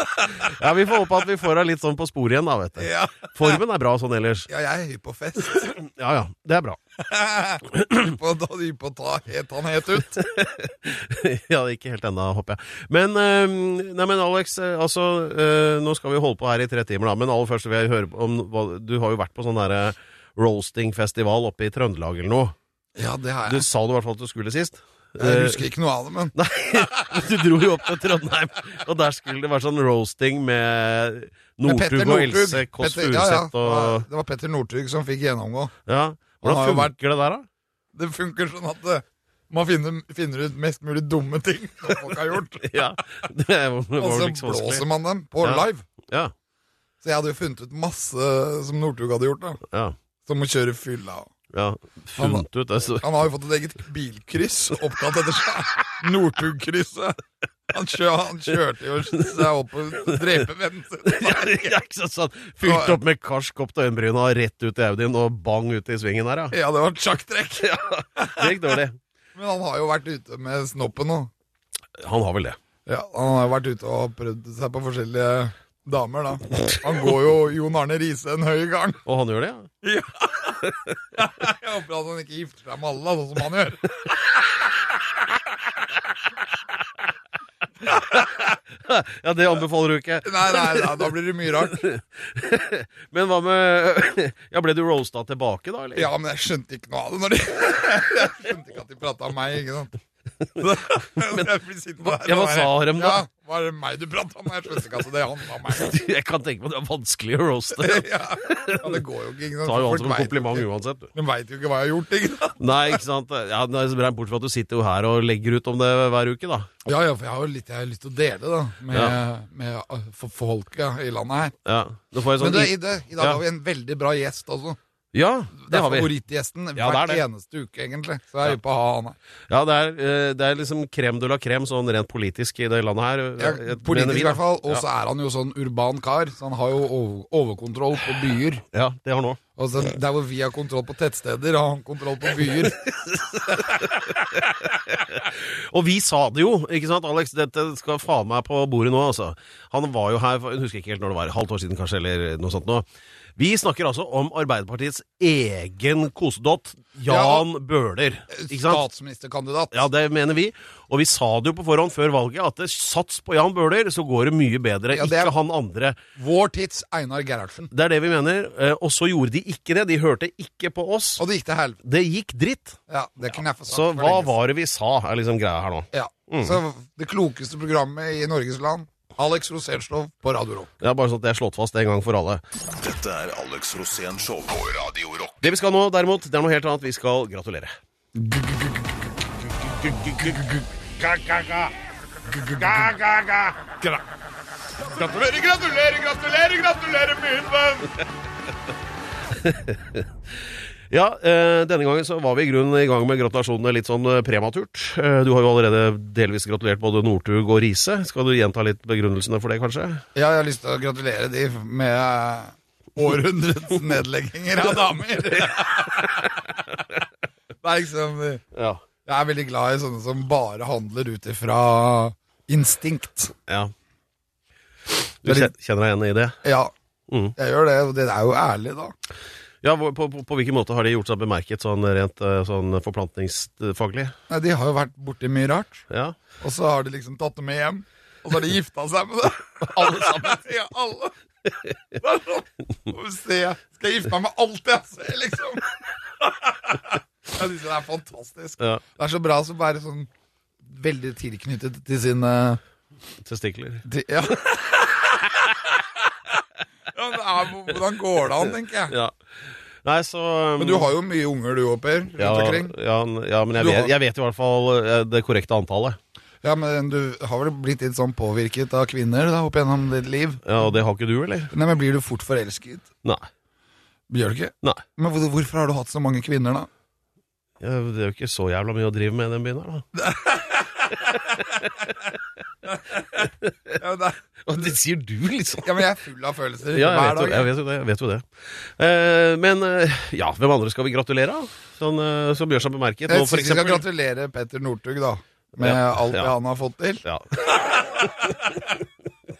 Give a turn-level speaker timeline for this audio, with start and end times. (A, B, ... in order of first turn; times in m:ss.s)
0:00.2-0:04.5 A
0:02.8-0:03.6 B
0:04.5-0:05.8 B
0:05.5-0:06.8 A
0:07.0-0:10.2 B
0:10.2-0:22.6 A
0:23.0-0:23.6 B
0:23.5-0:25.6 A
0:25.2-0:26.4 B
0:26.4-0:34.0 A
0:31.6-0:35.7 B
0:35.9-0:37.4 A
0:36.4-0:36.9 B
0:37.9-0:42.8 B
0:42.6-0:44.8 A
0:44.0-0:45.8 B
0:45.4-0:46.3 A
0:47.0-0:49.6 B
0:49.7-0:50.0 A
0:50.3-0:51.3 B
0:51.5-0:53.1 A
0:52.2-0:52.4 B
0:53.0-0:57.2 B
0:57.7-1:01.8 B
1:00.0-1:00.4 A
1:01.1-1:06.6 A
1:02.6-1:03.0 B
1:06.5-1:08.8 B
1:07.6-1:09.0 A
1:09.4-1:11.3 B
1:12.0-1:12.6 A
1:12.9-1:19.0 B
1:19.1-1:19.7 A
1:19.8-1:24.2 B
1:27.9-1:31.1 A
1:30.2-1:31.9 B
1:31.7-1:36.1 A
1:36.0-1:40.0 B
1:40.6-1:46.0 B
1:41.2-1:41.5 A
1:42.0-1:43.2 A
1:45.7-1:49.0 A
1:47.8-1:53.0 B
1:49.6-1:51.1 A
1:52.6-1:56.7 A
1:56.9-2:01.6 B
1:58.9-1:59.2 A
2:01.7-2:03.4 A
2:02.4-2:04.8 B
2:05.1-2:06.1 A
2:05.6-2:09.2 B
2:06.8-2:07.2 A
2:09.5-2:14.8 A
2:13.4-2:18.6 B
2:18.7-2:19.4 A
2:19.6-2:22.8 B
2:22.8-2:38.8 A
2:37.1-2:37.5 B
2:38.3-2:39.8 B
2:39.7-2:46.0 A
2:44.9-2:45.3 B
2:46.2-2:47.7 B
2:47.7-2:51.2 A
2:51.2-2:51.8 B
2:51.8-2:52.8 A
2:52.9-2:54.3 B
2:53.7-2:56.6 A
2:55.9-3:00.7 B
3:00.8-3:02.4 A
3:02.8-3:05.4 C
3:05.4-3:07.7 A
3:08.2-3:08.9 B
3:09.7-3:10.6 B
3:09.8-3:10.4 A
3:11.0-3:11.7 A
3:12.3-3:12.8 B
3:12.5-3:13.6 A
3:14.9-3:18.0 B
3:19.3-3:20.1 A
3:20.9-3:30.0 A
3:30.2-3:36.3 B
3:35.3-3:36.5 A
3:37.6-3:38.4 B
3:38.5-3:38.8 A
3:39.1-3:43.3 B
3:45.2-3:46.4 A
3:46.4-3:46.7 B
3:47.1-3:47.3 A
3:47.4-3:48.9 B
3:49.6-3:54.1 A
3:54.3-3:55.9 B
3:55.9-3:56.2 A
3:56.4-4:01.1 B
3:59.6-4:00.4 A
4:02.0-4:10.1 B
4:10.6-4:12.6 B
4:13.2-4:13.8 A
4:13.9-4:15.1 B
4:16.9-4:18.9 B
4:19.8-4:20.9 A
4:20.6-4:22.7 B
4:22.2-4:26.0 A
4:23.6-4:23.9 B
4:26.4-4:30.7 B
4:30.4-4:31.5 A
4:31.5-4:32.9 B
4:34.1-4:36.7 B
4:37.6-4:39.9 A
4:40.0-4:41.4 B
4:41.0-4:41.9 A
4:43.4-4:43.8 A
4:43.8-4:44.2 B
4:44.5-4:45.8 A
4:45.6-4:47.5 B
4:46.7-4:53.8 A
4:53.1-4:58.6 B
4:55.6-4:56.3 A
4:57.0-4:58.5 A